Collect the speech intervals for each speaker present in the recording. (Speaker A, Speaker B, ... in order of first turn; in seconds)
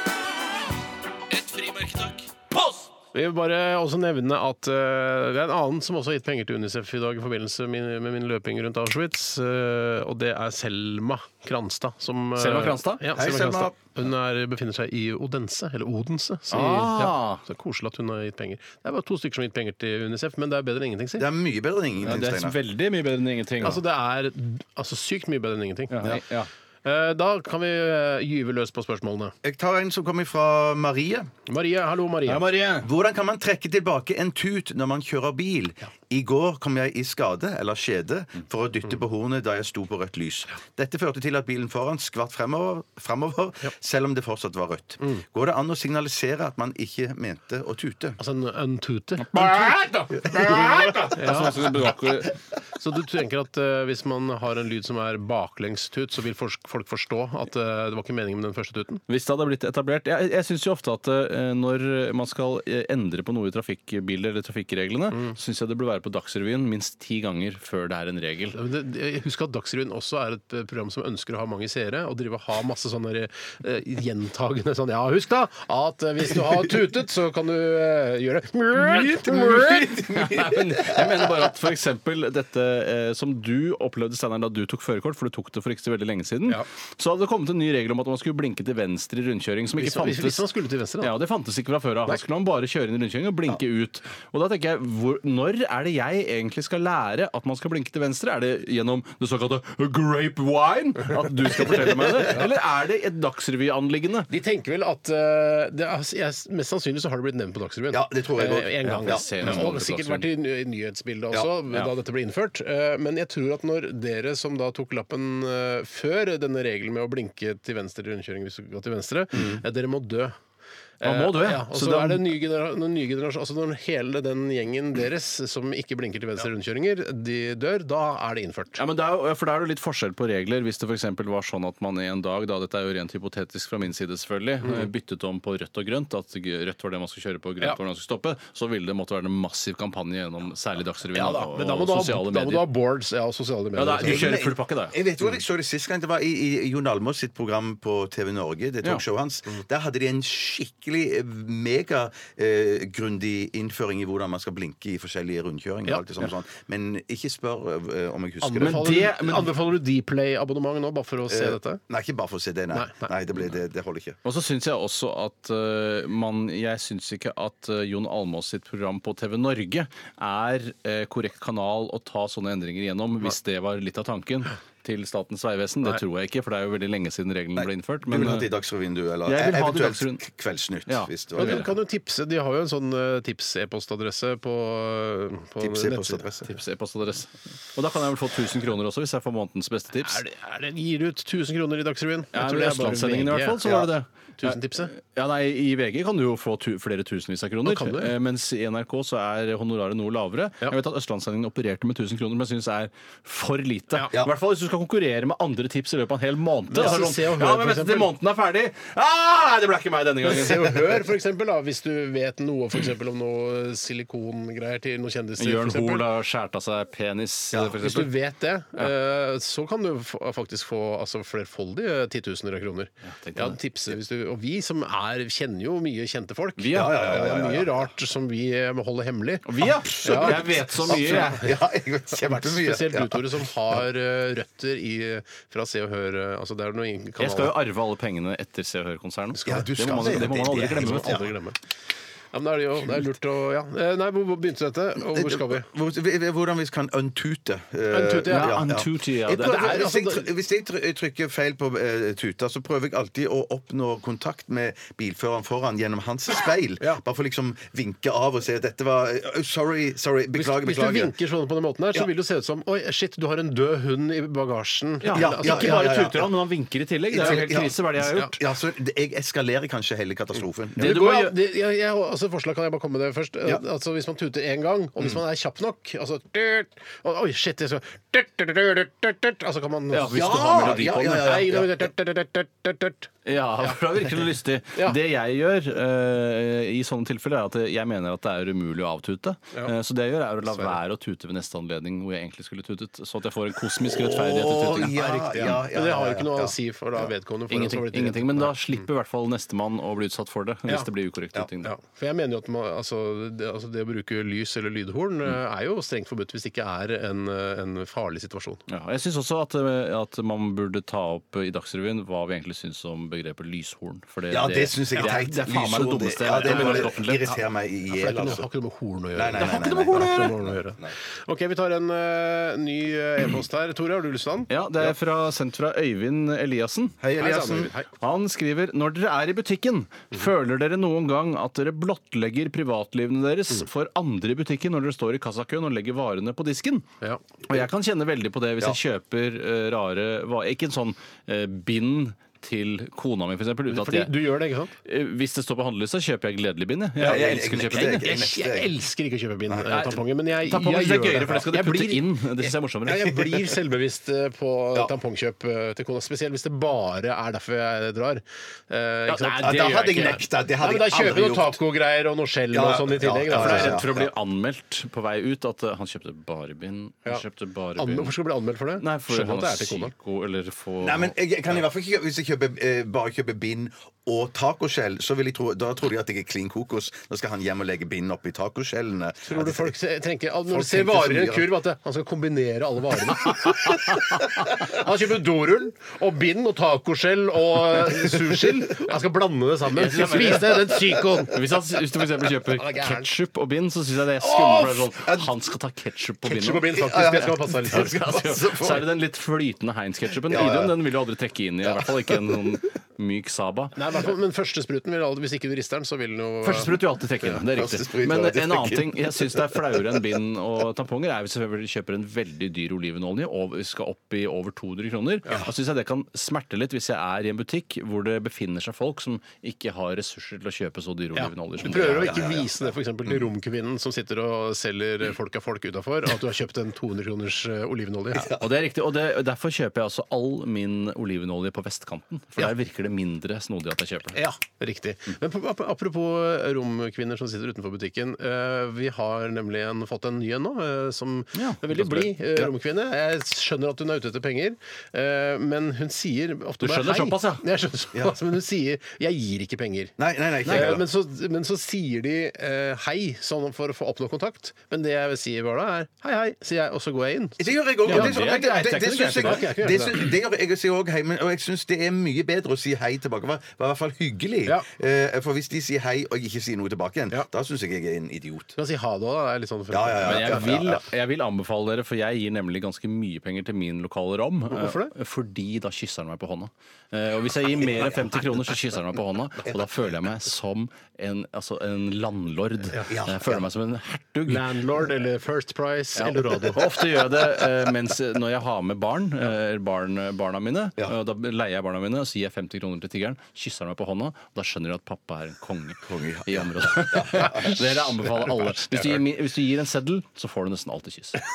Speaker A: 1.3-2.9, 12.4-13.0, 16.5-17.4, 22.0-23.8, 25.9-26.5, 32.2-32.9, 49.3-52.3, 59.1-68.6, 79.8-90.4, 91.0-104.3, 108.8-110.3, 121.0-122.2, 128.8-142.7, 143.8-144.9, 158.6-159.5, 164.2-178.5, 179.2-180.2, 180.9-181.7, 186.4-190.2, 192.3-210.8, 215.4-218.1, 223.1-223.6, 226.6-227.2, 229.4-231.5, 237.2-241.2, 248.3-249.8, 265.0-268.4, 270.8-271.3, 279.9-281.4, 283.2-295.0, 297.5-301.7, 308.7-317.3, 319.4-320.4, 324.5-327.0, 328.0-336.9, 337.5-344.2, 344.8-348.1, 349.7-353.2, 359.1-360.2, 363.3-368.1, 368.8-371.1, 389.7-403.7, 406.4-422.1, 428.3-434.2, 441.3-442.5, 446.6-447.4, 450.4-450.8, 457.9-459.5, 470.0-484.5, 486.0-501.2
Speaker B: 3.1-21.3, 23.6-26.1, 26.8-29.3, 31.5-32.4, 48.2-49.8, 51.1-51.5, 52.8-59.0, 68.5-79.9, 89.8-91.1, 104.3-120.3, 121.0-128.8, 141.1-144.4, 158.4-161.8, 162.7-163.1, 181.3-186.5, 189.9-193.9, 194.4-194.9, 197.6-198.1, 206.7-208.1, 210.2-216.1, 217.8-229.5, 230.0-231.5, 232.2-237.6, 239.3-241.6, 242.3-245.7, 247.9-248.6, 249.4-250.3, 260.3-265.9, 270.8-283.1, 294.9-298.5, 301.6-308.6, 316.4-316.9, 317.9-324.5, 327.2-327.9, 343.7-344.7, 347.8-363.9, 367.8-369.9, 379.2-391.3, 392.5-393.1, 396.2-398.2, 403.7-406.8, 421.1-428.3, 434.1-449.9, 450.4-458.2, 459.2-460.0, 468.6-470.6, 474.5-474.9, 484.3-486.7, 498.7-499.0
Speaker C: 13.1-13.8, 21.2-22.6, 29.4-31.3, 32.8-48.2, 50.1-51.2, 79.2-81.3, 101.8-102.1, 107.9-109.7, 119.3-119.6, 144.0-159.0, 161.3-164.2, 177.6-181.7, 185.6-186.3, 226.7-227.9, 229.9-233.5, 239.4-241.3, 245.0-261.1, 265.1-266.3, 267.1-271.0, 280.1-281.9, 293.8-297.1, 314.3-318.5, 319.1-320.9, 327.0-327.7, 347.0-348.7, 359.4-361.6, 362.5-364.1, 370.8-379.7, 380.5-381.6, 394.2-395.3, 396.7-398.9, 400.2-400.8, 401.6-402.1, 407.2-410.1, 421.6-423.2, 428.1-428.4, 450.0-450.8, 457.4-468.6, 469.7-470.8, 477.4-478.1, 479.4-479.9, 482.9-483.4, 495.8-497.8